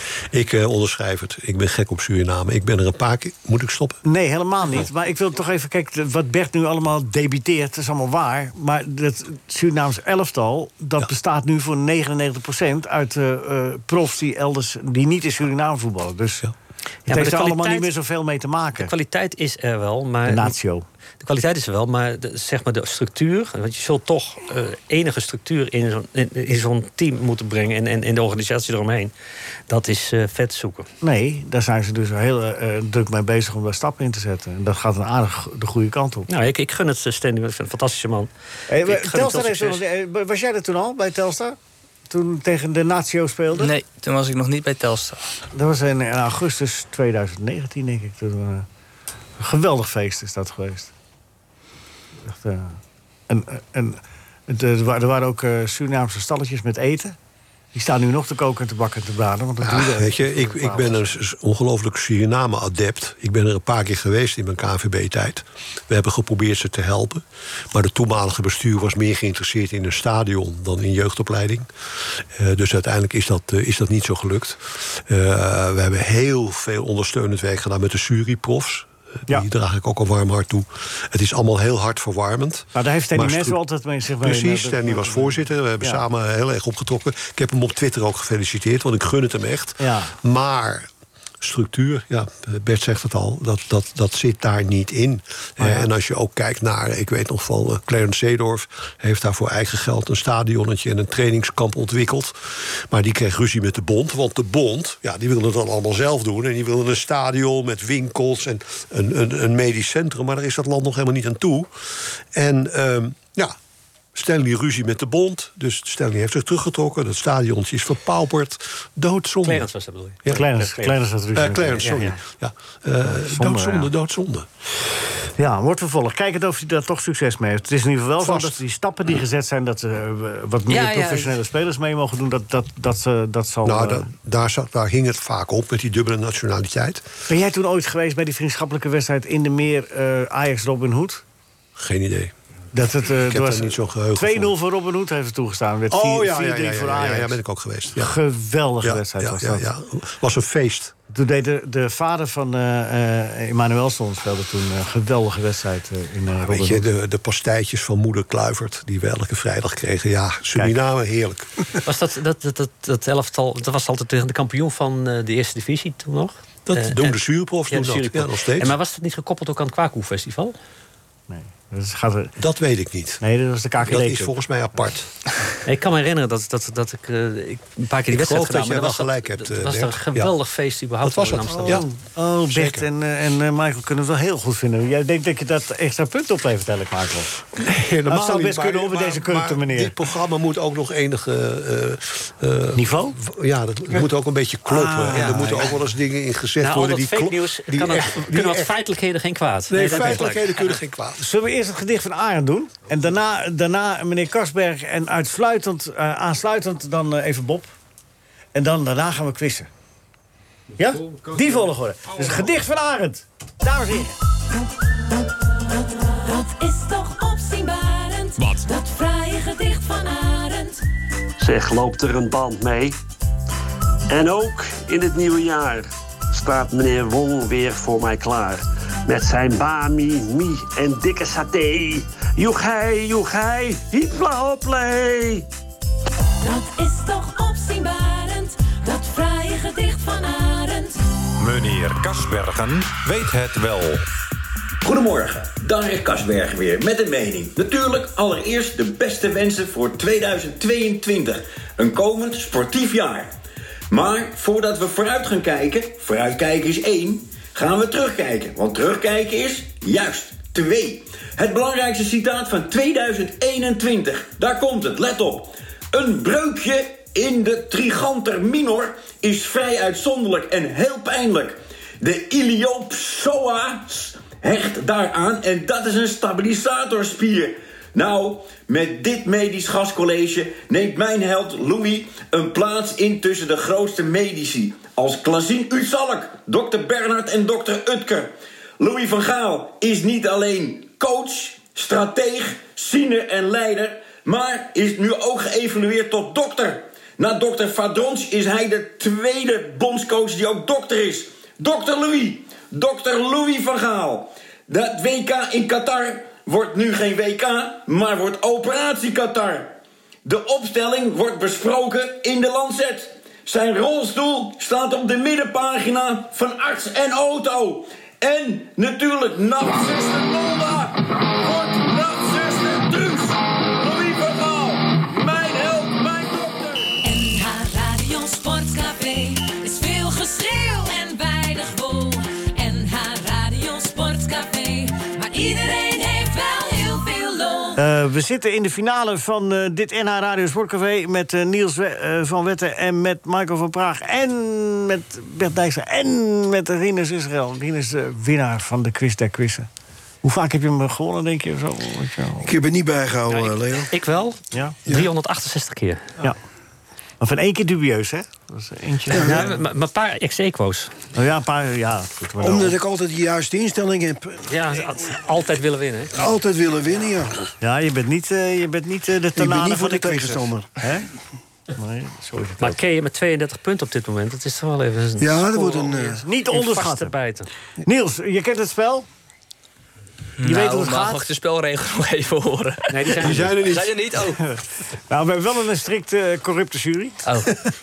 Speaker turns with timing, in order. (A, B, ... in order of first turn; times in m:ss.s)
0:00.3-0:04.0 A
0:04.0-0:16.5 B
0:17.1-0:17.9 C
0:17.1-0:18.9 B
0:18.8-0:20.6 C
0:20.3-0:20.8 B
0:21.2-0:29.1 C
0:29.7-0:30.9 C
0:31.0-0:36.3 B
0:36.3-0:38.3 C
0:38.7-0:41.6 B
0:38.8-0:39.8 C
0:42.1-0:43.7 B
0:43.6-0:45.2 D
0:45.5-0:48.7 B
0:49.4-0:50.9 B
0:52.3-0:52.8 B
0:53.3-0:57.2 B
0:57.7-1:01.1 B
0:59.6-1:23.6 A
1:22.8-1:26.0 B
1:24.2-1:30.9 A
1:29.8-1:30.2 B
1:31.4-1:53.6 A
1:35.6-1:35.9 B
1:54.2-1:59.7 A
1:59.4-2:01.0 C
2:00.3-2:02.1 B
2:01.4-2:04.5 A
2:01.8-2:02.2 C
2:03.0-2:03.9 B
2:05.4-2:14.1 B
2:08.2-2:08.6 A
2:10.7-2:11.4 C
2:13.6-2:17.1 A
2:17.3-2:21.2 B
2:21.8-2:22.3 A
2:22.7-2:27.4 B
2:23.2-2:24.6 A
2:25.9-2:28.2 A
2:28.0-2:29.7 B
2:28.8-2:30.9 A
2:31.1-2:36.9 B
2:36.4-2:41.5 A
2:41.8-2:47.2 C
2:46.7-2:48.8 A
2:47.7-2:50.6 C
2:51.3-2:52.3 B
2:52.4-2:53.2 A
2:53.2-2:54.4 B
2:53.8-2:55.1 A
2:55.6-3:01.9 C
2:58.1-3:00.3 A
3:01.0-3:01.8 A
3:01.6-3:07.4 B
3:02.5-3:02.9 A
3:07.5-3:18.7 A
3:08.1-3:09.9 B
3:12.8-3:13.2 B
3:14.7-3:15.7 B
3:16.6-3:20.8 C
3:19.7-3:21.2 A
3:21.2-3:27.7 B
3:28.6-3:29.7 B
3:30.8-3:34.2 B
3:35.8-3:40.8 E
3:41.4-3:43.0 F
3:44.1-3:55.5 F
3:56.4-4:01.0 E
4:01.4-4:04.1 G
4:04.8-4:13.4 H
4:13.9-5:27.0 H
5:27.0-5:37.8 E
5:37.8-5:49.7 B
5:50.2-5:52.5 B
5:52.4-5:53.9 I
5:53.3-5:56.1 C
5:54.5-5:54.8 B
5:57.2-5:59.6 B
5:59.1-6:00.9 C
5:59.2-5:59.6 I
6:01.2-6:02.8 B
6:02.4-6:04.4 I
6:04.5-6:06.1 C
6:06.2-6:07.5 I
6:07.6-6:11.1 B
6:09.4-6:10.7 I
6:11.7-6:12.8 B
6:12.6-6:17.5 C
6:15.2-6:16.2 I
6:16.2-6:17.2 B
6:17.8-6:19.1 B
6:20.4-6:24.4 D
6:20.4-6:21.3 B
6:22.9-6:23.6 C
6:23.2-6:24.0 A
6:24.4-6:27.3 B
6:27.3-6:27.7 D